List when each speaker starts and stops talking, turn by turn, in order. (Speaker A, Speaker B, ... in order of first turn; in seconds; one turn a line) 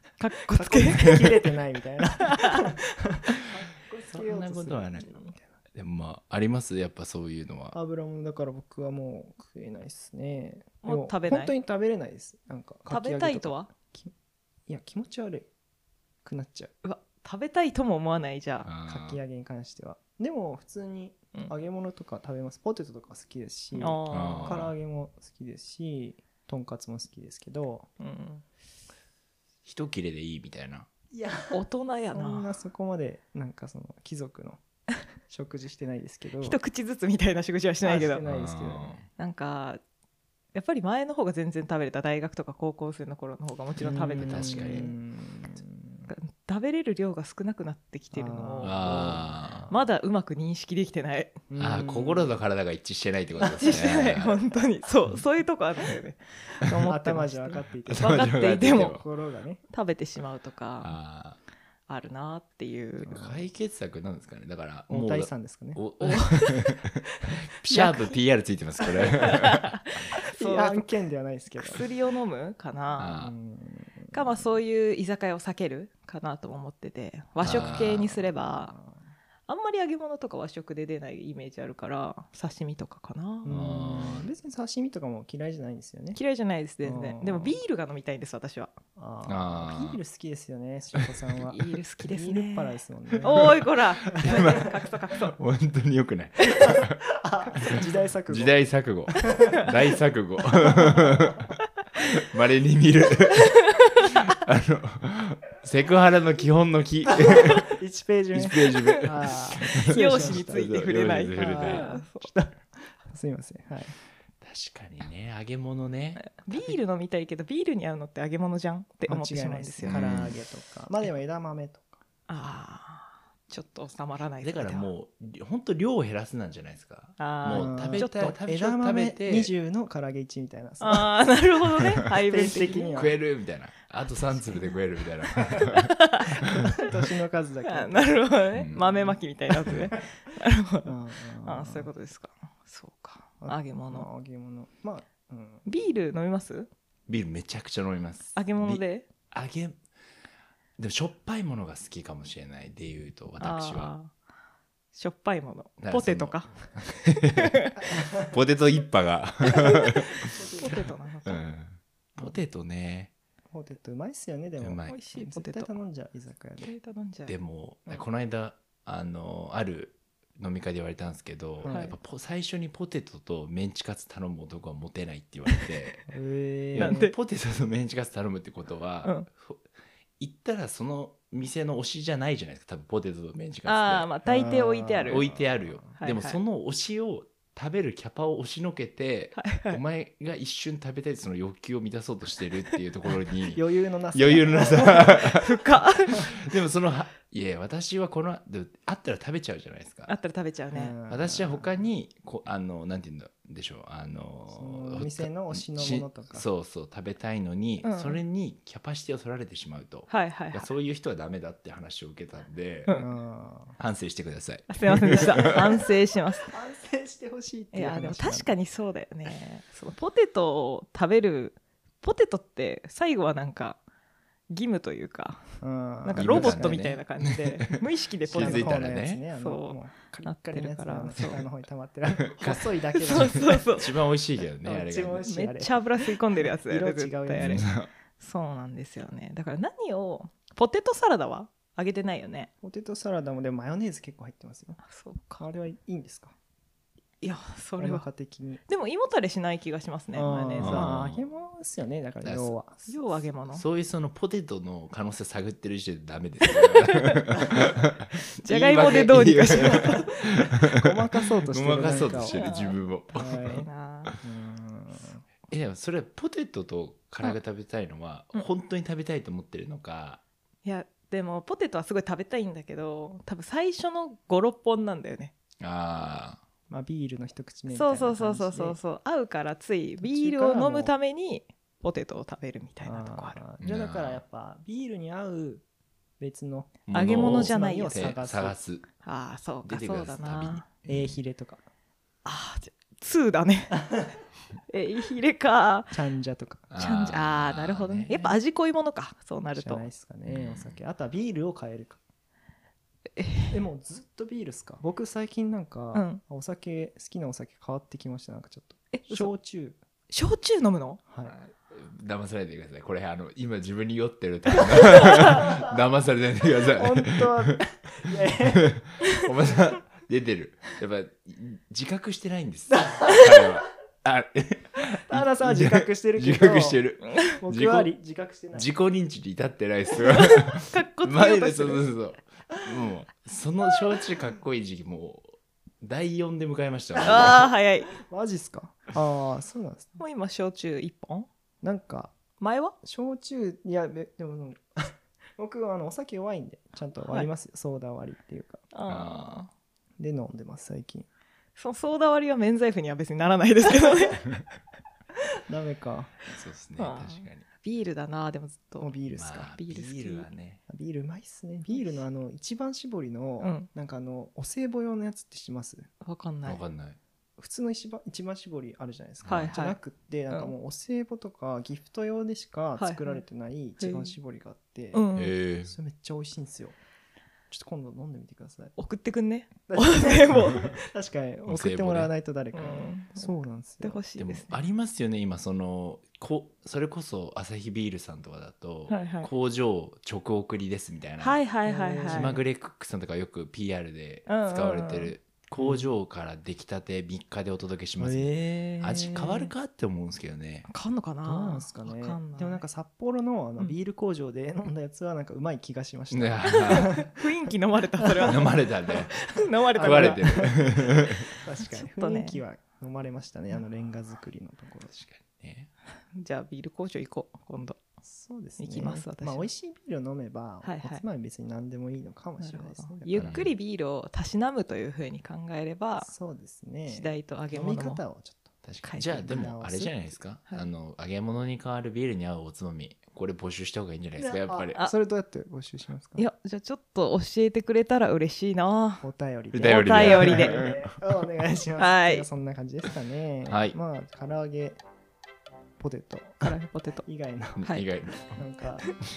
Speaker A: 0.2-1.3
Speaker B: 0.5-5.6
Speaker A: 2.3-2.6
Speaker C: 4.1-7.8
Speaker B: 7.7-14.1
Speaker A: 10.8-11.5
Speaker A: 12.9-13.7
Speaker B: 14.7-15.5
Speaker B: 16.2-16.7
Speaker A: 16.8-18.7
Speaker C: 18.6-19.2
Speaker B: 18.9-27.9
Speaker A: 23.7-24.6
Speaker C: 24.1-24.7
Speaker A: 28.0-28.4
Speaker C: 29.7-30.9
Speaker B: 31.1-31.6
Speaker A: 31.5-32.5
Speaker B: 32.1-34.6
Speaker B: 35.3-36.6
Speaker A: 36.4-38.2
Speaker B: 37.8-39.0
Speaker C: 38.2-39.1
Speaker A: 39.2-39.8
Speaker A: 40.5-44.9
Speaker B: 43.8-46.1
Speaker C: 44.1-44.9
Speaker A: 46.1-51.4
Speaker B: 48.1-49.7
Speaker C: 48.6-49.7
Speaker B: 51.5-52.4
Speaker C: 51.6-54.3
Speaker A: 53.4-59.0
Speaker B: 56.6-59.6
Speaker C: 57.9-59.0
Speaker A: 59.7-61.0
Speaker C: 60.8-61.4
Speaker A: 61.9-63.1
Speaker C: 63.0-66.9
Speaker B: 63.0-63.5
Speaker B: 64.9-65.8
Speaker A: 66.0-66.7
Speaker C: 67.6-69.7
Speaker A: 67.7-68.2
Speaker A: 69.1-70.9
Speaker B: 70.1-71.9
Speaker A: 71.6-73.1
Speaker C: 73.0-73.4
Speaker B: 73.2-74.4
Speaker A: 74.1-78.7
Speaker C: 77.4-78.2
Speaker B: 78.4-79.1
Speaker A: 79.5-83.5
Speaker B: 83.4-86.2
Speaker C: 83.5-84.3
Speaker A: 86.2-88.7
Speaker B: 86.8-87.6
Speaker B: 89.0-93.7
Speaker C: 89.3-90.0
Speaker A: 91.4-95.4
Speaker C: 94.1-97.0
Speaker B: 94.2-94.6
Speaker B: 96.4-99.7
Speaker C: 98.3-101.4
Speaker C: 102.0-107.7
Speaker B: 107.0-110.7
Speaker C: 108.3-111.9
Speaker A: 109.7-112.3
Speaker B: 111.4-113.9
Speaker C: 114.4-116.7
Speaker A: 116.2-120.3
Speaker B: 119.1-122.0
Speaker C: 119.8-120.3
Speaker A: 122.3-124.9
Speaker C: 124.4-129.5
Speaker A: 127.2-128.3
Speaker B: 127.5-131.2
Speaker A: 130.8-133.2
Speaker B: 132.2-133.2
Speaker C: 132.9-135.9
Speaker A: 134.2-134.8
Speaker A: 135.4-136.9
Speaker B: 136.4-140.0
Speaker A: 137.7-140.9
Speaker C: 138.6-138.8
Speaker B: 140.8-141.9
Speaker A: 141.4-144.1
Speaker B: 143.4-145.7
Speaker A: 145.7-146.7
Speaker C: 147.1-149.8
Speaker A: 148.3-149.1
Speaker C: 150.8-153.9
Speaker A: 153.4-154.1
Speaker A: 154.9-156.5
Speaker C: 155.8-160.2
Speaker A: 157.3-157.8
Speaker B: 157.8-158.3
Speaker B: 160.2-160.9
Speaker A: 160.3-161.4
Speaker C: 161.2-163.1
Speaker B: 163.5-166.7
Speaker C: 164.6-165.0
Speaker A: 164.9-165.8
Speaker A: 166.6-167.3
Speaker C: 167.3-176.0
Speaker B: 171.6-172.0
Speaker A: 171.7-172.0
Speaker B: 176.1-177.0
Speaker C: 176.7-179.7
Speaker A: 176.8-177.1
Speaker C: 180.2-184.1
Speaker A: 183.7-185.3
Speaker B: 184.2-186.0
Speaker C: 185.1-193.6
Speaker A: 186.0-186.4
Speaker A: 189.3-189.8
Speaker B: 193.1-195.5
Speaker C: 194.1-195.5
Speaker A: 195.3-196.3
Speaker C: 196.1-200.1
Speaker A: 200.1-201.0
Speaker B: 200.8-201.8
Speaker C: 201.1-213.0
Speaker B: 204.5-206.5
Speaker A: 207.8-208.2
Speaker A: 210.1-210.7
Speaker B: 212.9-213.8
Speaker C: 213.8-215.5
Speaker A: 214.7-216.5
Speaker B: 215.1-215.6
Speaker B: 216.5-218.5
Speaker A: 217.7-223.8
Speaker A: 224.5-231.4
Speaker B: 225.6-226.8
Speaker C: 226.2-229.2
Speaker B: 228.3-233.8
Speaker C: 232.3-235.3
Speaker A: 233.0-234.0
Speaker B: 234.6-237.7
Speaker A: 234.7-242.5
Speaker C: 237.4-237.9
Speaker B: 242.6-244.8
Speaker A: 244.8-245.4
Speaker B: 245.4-246.3
Speaker A: 247.2-248.1
Speaker B: 247.8-248.6
Speaker A: 248.7-250.9
Speaker B: 250.1-253.2
Speaker C: 250.6-251.2
Speaker C: 252.2-252.6
Speaker A: 252.9-253.7
Speaker C: 253.5-260.7
Speaker A: 256.9-257.1
Speaker A: 258.4-260.3
Speaker B: 259.0-263.7
Speaker C: 261.2-264.2
Speaker A: 262.2-264.1
Speaker B: 264.2-265.2
Speaker C: 265.5-270.2
Speaker A: 270.6-275.3
Speaker C: 275.6-276.4
Speaker B: 276.7-278.8
Speaker A: 277.7-283.4
Speaker B: 280.0-280.9
Speaker B: 282.8-285.6
Speaker C: 283.6-284.2
Speaker B: 286.2-288.6
Speaker C: 286.9-288.9
Speaker A: 286.9-288.0
Speaker A: 289.0-290.7
Speaker C: 289.6-291.2
Speaker B: 290.9-291.6
Speaker A: 292.2-294.1
Speaker A: 294.7-296.0
Speaker B: 295.9-296.7
Speaker C: 296.7-298.4
Speaker A: 296.8-299.8
Speaker B: 299.6-302.0
Speaker C: 300.2-300.8
Speaker A: 303.2-303.6
Speaker B: 303.5-309.8
Speaker A: 305.9-306.2
Speaker A: 308.9-309.3
Speaker A: 310.1-311.0
Speaker B: 311.1-311.4
Speaker C: 311.2-317.6
Speaker B: 315.1-315.8
Speaker B: 316.6-319.7
Speaker C: 318.8-327.9
Speaker B: 322.9-323.2
Speaker B: 325.1-328.7
Speaker C: 328.5-337.5
Speaker A: 329.9-331.9
Speaker B: 337.0-337.3
Speaker A: 337.0-338.0
Speaker B: 338.0-340.0
Speaker A: 340.0-341.3
Speaker B: 341.6-342.2
Speaker A: 342.4-342.8
Speaker B: 342.8-348.6
Speaker A: 347.0-347.3
Speaker A: 348.7-349.5
Speaker C: 348.9-349.5
Speaker B: 350.0-351.1
Speaker A: 351.6-354.3
Speaker B: 355.5-356.2
Speaker C: 356.3-357.4
Speaker A: 356.8-359.0
Speaker B: 358.8-359.5
Speaker C: 359.2-360.6
Speaker A: 359.6-360.3
Speaker B: 360.7-365.9
Speaker A: 361.7-362.0
Speaker A: 363.4-363.7
Speaker A: 366.0-366.6
Speaker C: 366.4-367.0
Speaker B: 367.4-376.8
Speaker C: 369.2-369.5
Speaker A: 369.3-369.8
Speaker A: 372.8-373.2
Speaker A: 373.8-374.1
Speaker A: 374.9-375.4
Speaker C: 375.1-375.7
Speaker B: 377.5-378.8
Speaker A: 378.8-380.7
Speaker B: 379.7-384.0
Speaker C: 381.5-382.1
Speaker A: 382.5-384.6
Speaker C: 384.2-391.4
Speaker A: 388.9-389.3
Speaker A: 391.2-392.4
Speaker B: 391.6-392.4
Speaker C: 392.1-400.7
Speaker A: 394.3-395.1
Speaker B: 395.6-395.9
Speaker B: 398.0-399.2
Speaker A: 400.7-402.6
Speaker B: 401.2-407.1
Speaker C: 406.1-407.0
Speaker A: 406.5-410.5
Speaker B: 408.2-408.4
Speaker C: 408.2-409.2
Speaker C: 409.8-411.2
Speaker B: 409.8-414.9
Speaker A: 411.7-412.4
Speaker C: 414.9-415.7
Speaker A: 416.1-417.8
Speaker B: 418.0-423.4
Speaker A: 418.6-419.5
Speaker A: 420.6-421.1
Speaker A: 422.4-426.1
Speaker C: 423.2-423.5
Speaker B: 426.0-428.5
Speaker A: 426.9-428.0
Speaker C: 428.6-434.8
Speaker A: 428.8-429.2
Speaker B: 429.1-430.0
Speaker B: 434.2-436.3
Speaker A: 436.2-440.7
Speaker B: 439.0-444.8
Speaker C: 439.6-440.9
Speaker A: 441.8-442.3
Speaker C: 443.5-443.8
Speaker B: 445.8-447.7
Speaker A: 446.4-447.1
Speaker C: 447.6-448.4
Speaker B: 448.3-448.9